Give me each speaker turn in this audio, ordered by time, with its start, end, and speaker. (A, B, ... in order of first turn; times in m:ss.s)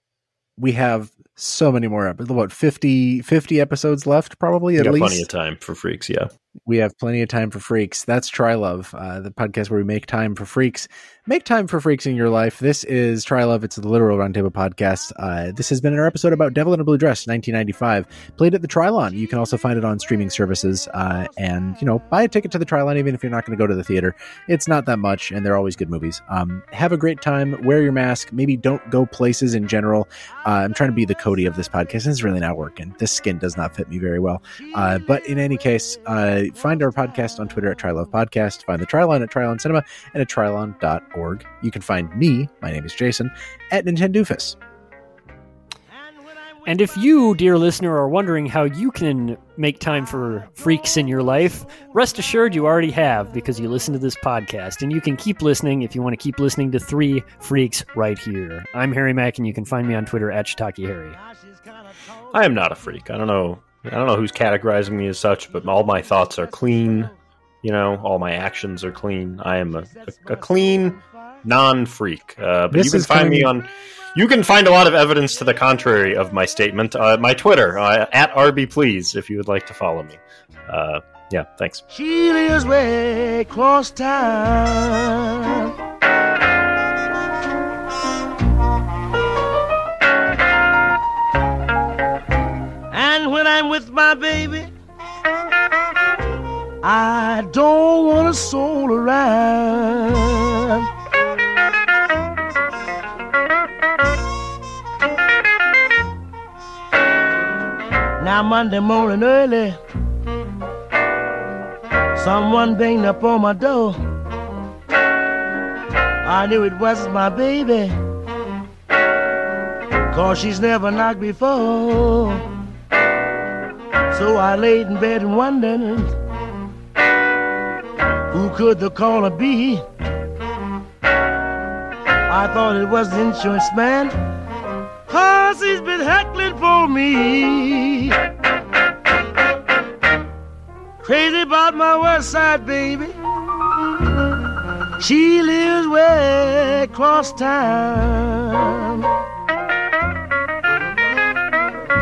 0:00.6-0:05.3 A
0:04.8-0:06.3 B
0:06.6-0:44.6 A
0:46.6-1:01.2 C
1:01.2-1:02.4 D
1:02.3-1:07.1 B
1:06.2-1:07.2 D
1:07.6-1:21.8 B
1:09.9-1:11.4 D
1:12.7-1:13.5 A
1:21.9-1:25.7 D
1:32.9-1:34.7 D
1:36.8-1:40.9 D
1:48.2-1:49.8 D
1:52.1-1:54.0 D
1:56.2-1:58.0 D
2:00.1-2:02.4 D
2:04.1-2:06.1 D
2:08.3-2:09.8 D
2:12.3-2:14.1 D
2:15.1-2:18.2 D
2:21.0-2:23.1 D
2:25.0-2:29.1 D